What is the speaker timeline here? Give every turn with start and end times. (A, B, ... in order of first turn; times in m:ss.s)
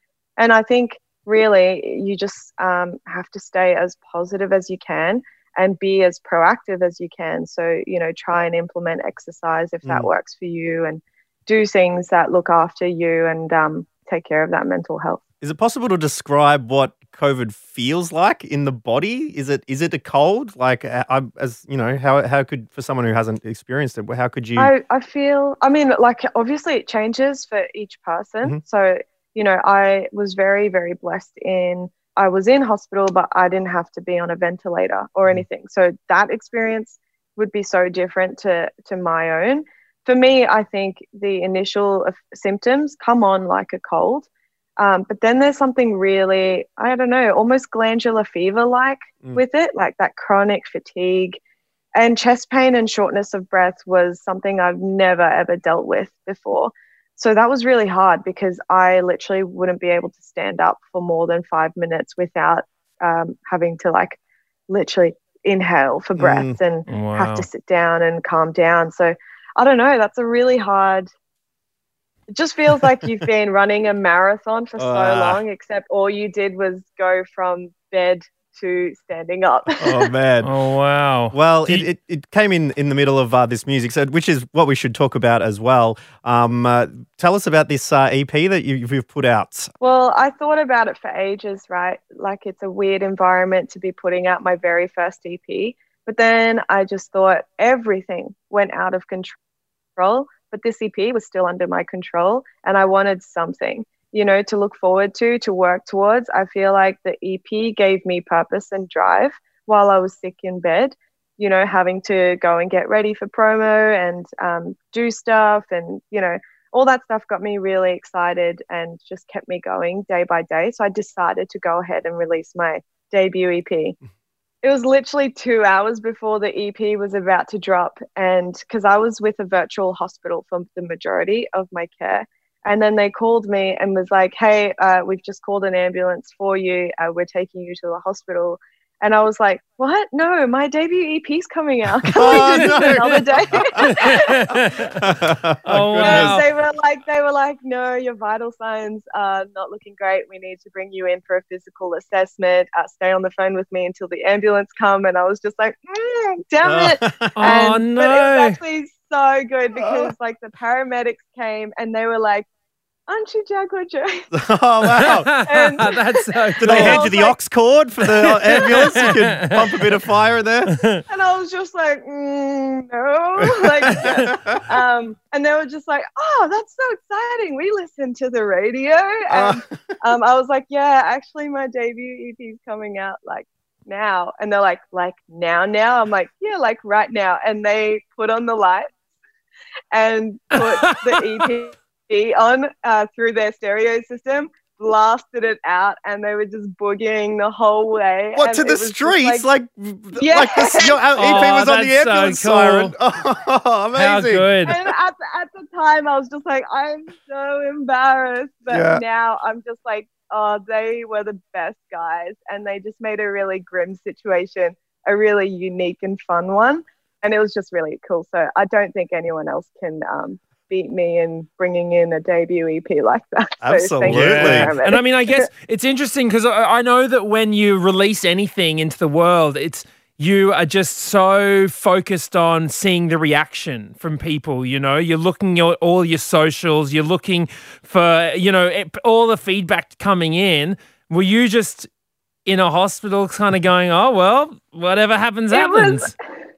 0:00.4-0:15.2 A
0:15.4-0:24.7 B
0:24.6-0:51.4 A
0:51.9-1:11.1 A
1:06.2-1:06.6 B
1:06.9-1:07.5 C
1:12.3-1:20.1 A
1:12.9-1:13.2 B
1:14.8-1:15.4 B
1:19.8-1:20.5 B
1:20.4-1:21.9 C
1:21.3-1:29.7 B
1:29.8-1:39.4 A
1:40.0-2:04.0 A
2:04.6-2:24.6 A
2:22.0-2:26.4 B
2:22.2-2:23.0 C
2:23.8-2:25.1 C
2:25.6-2:26.5 C
2:26.0-2:42.5 A
2:36.6-2:37.6 B
2:37.4-2:38.6 C
2:39.8-2:40.1 B
2:43.1-2:44.2 A
2:44.3-2:45.3 B
2:45.0-2:47.1 C
2:45.4-2:47.4 A
2:46.6-2:50.8 B
2:48.2-2:49.9 C
2:48.5-2:49.1 A
2:50.7-2:51.0 C
2:51.1-3:08.9 A
2:53.4-2:54.6 B
2:53.8-2:54.3 C
2:59.3-2:59.6 B
3:09.9-3:19.4 A
3:10.5-3:10.9 C
3:18.4-3:24.5 B
3:20.2-3:21.0 A
3:21.2-3:22.9 C
3:24.0-3:24.8 C
3:24.6-3:45.5 A
3:28.7-3:29.0 B
3:43.6-3:44.7 B
3:44.0-4:01.9 C
4:02.4-4:06.1 C
4:05.5-4:06.4 A